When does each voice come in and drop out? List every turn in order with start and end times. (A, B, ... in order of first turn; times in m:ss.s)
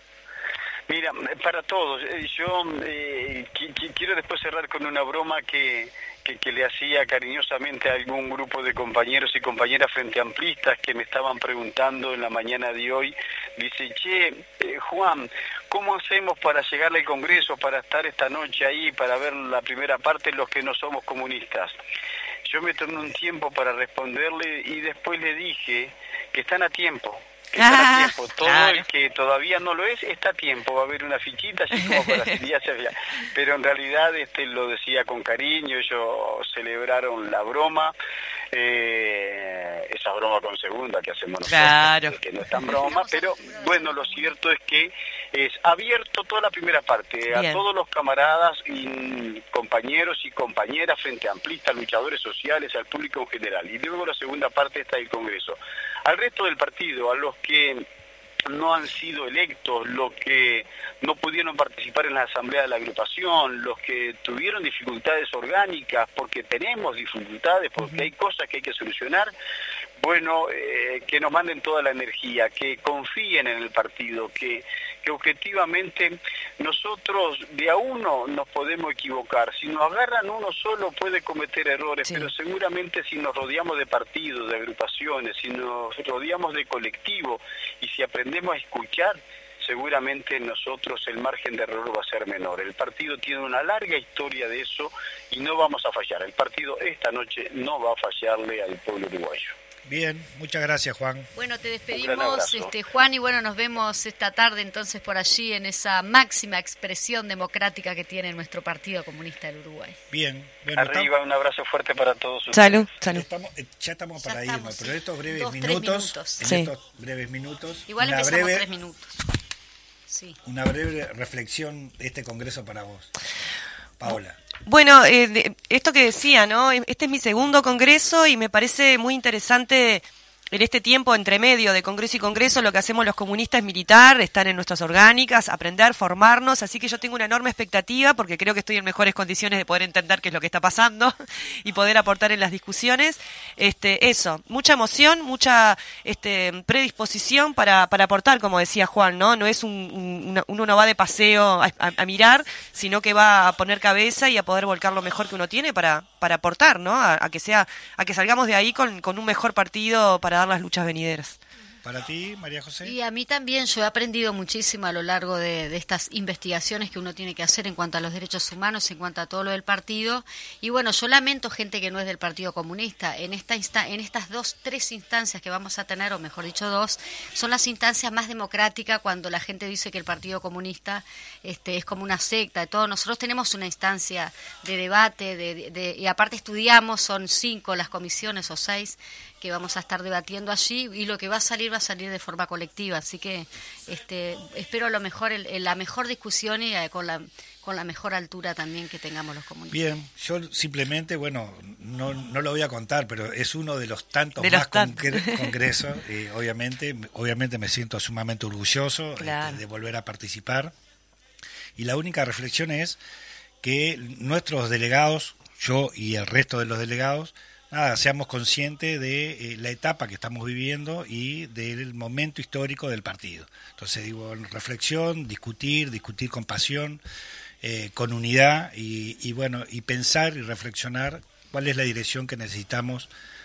0:00.9-0:21.8 A
0:22.4-0:37.9 A
0:27.6-0:28.8 B
0:31.9-0:32.3 B
0:38.5-0:57.8 A
0:41.5-0:42.2 B
0:42.8-0:44.3 C
0:47.3-0:47.6 B
0:58.5-1:09.3 A
1:10.0-1:39.5 A
1:22.0-1:22.3 B
1:39.8-1:41.3 D
1:41.3-1:50.0 C
1:41.9-1:42.7 A
1:50.1-1:51.1 D
1:50.8-1:52.8 A
1:52.5-1:53.2 B
1:53.1-1:58.6 D
1:54.2-1:56.6 C
1:56.4-1:56.7 B
1:57.9-1:59.2 C
2:00.1-2:00.4 C
2:00.4-2:03.1 D
2:04.0-2:04.4 D
2:04.6-2:41.4 B
2:41.8-2:43.0 D
2:42.8-3:19.8 C
3:19.7-3:30.7 D
3:24.4-3:25.5 B
3:29.2-3:29.6 B
3:31.8-3:33.0 D
3:33.6-3:47.0 D
3:47.6-3:53.1 D